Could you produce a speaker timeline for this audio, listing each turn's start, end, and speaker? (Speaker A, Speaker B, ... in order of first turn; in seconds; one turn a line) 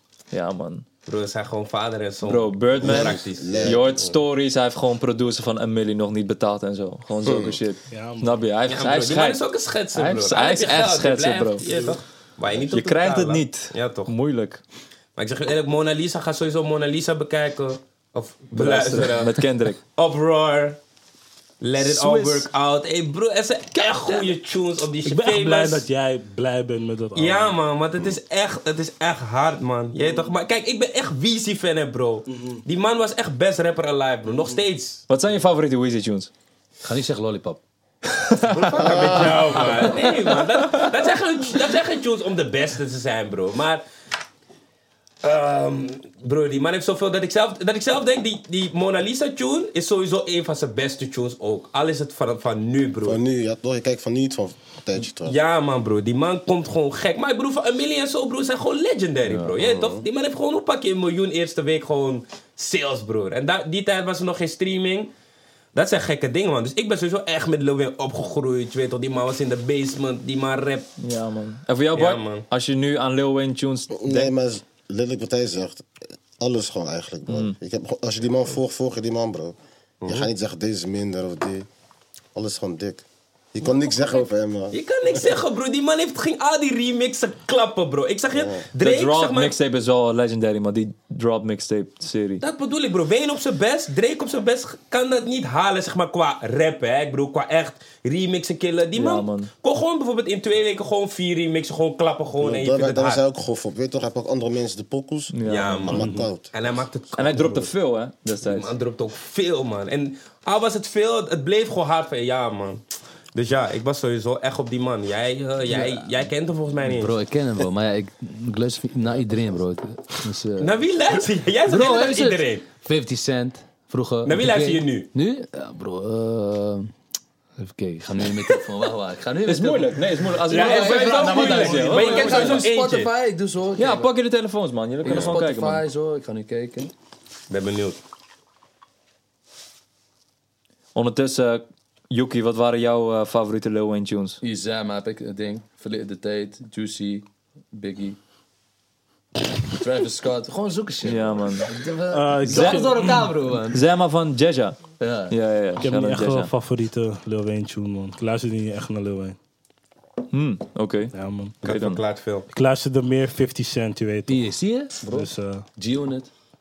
Speaker A: 0.3-0.8
Speaker B: 1.1-4.2
Speaker A: 2.2-11.7
Speaker C: 2.8-4.0
Speaker C: 7.2-7.6
Speaker D: 7.9-8.3
Speaker B: 8.7-14.1
Speaker D: 11.7-12.0
Speaker A: 12.7-14.6
Speaker B: 15.2-20.8
Speaker A: 18.6-19.8
Speaker B: 21.6-25.9
Speaker A: 21.8-22.5
Speaker D: 25.0-27.6
Speaker B: 27.1-35.0
Speaker D: 32.3-32.6
Speaker A: 35.1-36.3
Speaker E: 36.8-37.6
Speaker A: 38.1-39.5
Speaker B: 38.5-43.8
Speaker D: 38.8-40.0
Speaker B: 45.2-53.2
Speaker C: 53.0-55.4
Speaker B: 55.2-65.1
Speaker C: 59.5-60.0
Speaker B: 65.7-70.9
Speaker A: 71.0-74.3
Speaker B: 72.0-72.5
Speaker C: 73.9-75.9
Speaker C: 76.4-79.5
Speaker A: 77.3-77.6
Speaker B: 80.0-80.3
Speaker C: 80.1-81.7
Speaker C: 82.3-85.2
Speaker B: 83.7-89.5
Speaker C: 88.3-88.7
Speaker A: 88.8-92.4
Speaker B: 92.4-103.2
Speaker A: 99.0-99.5
Speaker C: 102.4-105.4
Speaker A: 105.3-106.0
Speaker B: 105.5-107.7
Speaker C: 105.9-106.5
Speaker D: 105.9-106.3
Speaker A: 107.2-108.7
Speaker B: 108.4-112.8
Speaker B: 113.3-117.1
Speaker E: 115.7-116.0
Speaker E: 116.8-120.8
Speaker B: 120.6-122.7
Speaker E: 121.7-126.9
Speaker B: 124.2-125.1
Speaker E: 127.6-134.1
Speaker A: 129.5-132.6
Speaker B: 130.5-133.1
Speaker A: 133.8-135.8
Speaker E: 135.0-136.9
Speaker B: 135.1-135.4
Speaker B: 137.5-138.0
Speaker A: 140.9-144.4
Speaker E: 144.4-148.2
Speaker E: 149.6-153.8
Speaker A: 151.0-151.7
Speaker D: 152.1-153.2
Speaker A: 152.5-154.8
Speaker E: 155.0-155.3
Speaker A: 155.3-156.5
Speaker D: 155.8-159.4
Speaker A: 160.3-162.0
Speaker D: 161.1-161.6
Speaker B: 161.6-162.5
Speaker D: 162.5-164.5
Speaker E: 164.3-166.3
Speaker D: 165.1-165.7